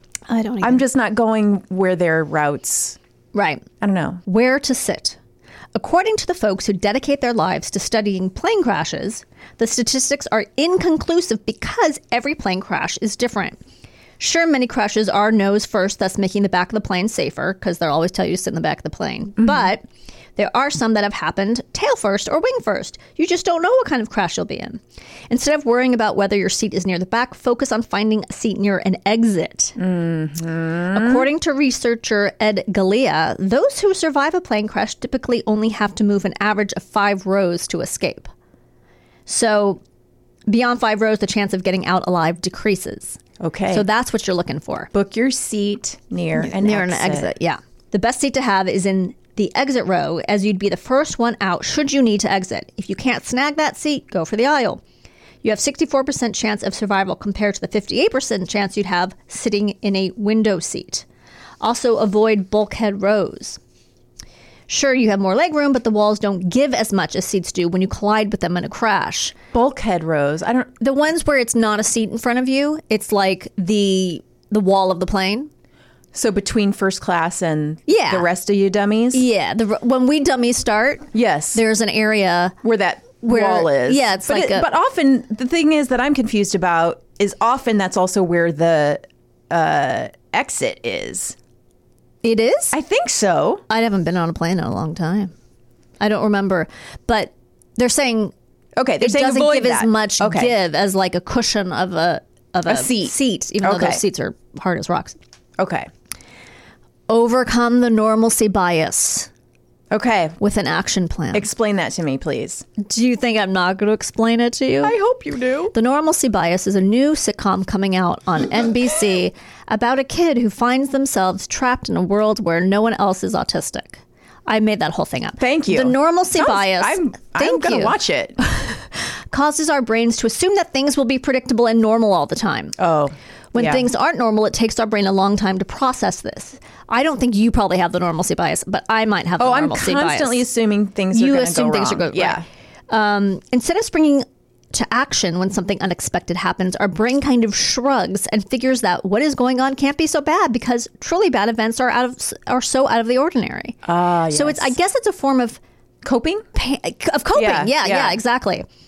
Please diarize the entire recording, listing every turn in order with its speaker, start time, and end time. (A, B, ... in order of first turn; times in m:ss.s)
0:00.3-0:00.8 A
0:00.6-0:03.0 B
0:03.3-0:03.6 A
0:03.8-0:04.2 B
0:04.2-0:05.2 A
0:05.8-0:13.6 A
0:14.2-0:19.8 A
0:19.4-0:19.7 B
0:20.4-0:29.8 A
0:29.8-0:31.3 B
0:30.9-0:38.3 A
0:39.3-0:39.8 A
0:40.5-0:43.2 A
0:43.4-0:43.9 B
0:43.7-0:44.9 A
0:44.9-0:47.3 B
0:46.4-0:54.8 A
0:55.4-1:01.0 A
1:01.6-1:03.6 A
1:04.7-1:09.3 A
1:09.5-1:10.8 B
1:10.8-1:15.5 A
1:16.1-1:19.2 B
1:17.9-1:18.3 A
1:19.1-1:22.6 A
1:21.1-1:21.6 B
1:22.6-1:31.4 B
1:23.2-1:24.7 A
1:32.2-1:32.8 A
1:32.7-1:33.6 B
1:33.7-1:35.3 A
1:36.0-1:38.3 A
1:38.8-1:40.5 B
1:39.0-1:45.2 A
1:42.7-1:44.0 B
1:45.6-1:45.9 B
1:47.1-1:49.3 A
1:49.9-1:50.4 B
1:50.4-1:51.5 A
1:51.3-1:52.6 B
1:52.8-1:54.9 A
1:54.8-1:55.7 B
1:55.7-2:12.8 A
2:05.4-2:08.4 B
2:12.8-2:13.9 B
2:13.5-2:20.4 A
2:19.4-2:22.4 B
2:21.1-2:33.8 A
2:33.8-2:34.7 B
2:34.3-2:35.6 A
2:36.0-2:36.4 B
2:36.6-2:38.6 A
2:37.4-2:38.2 B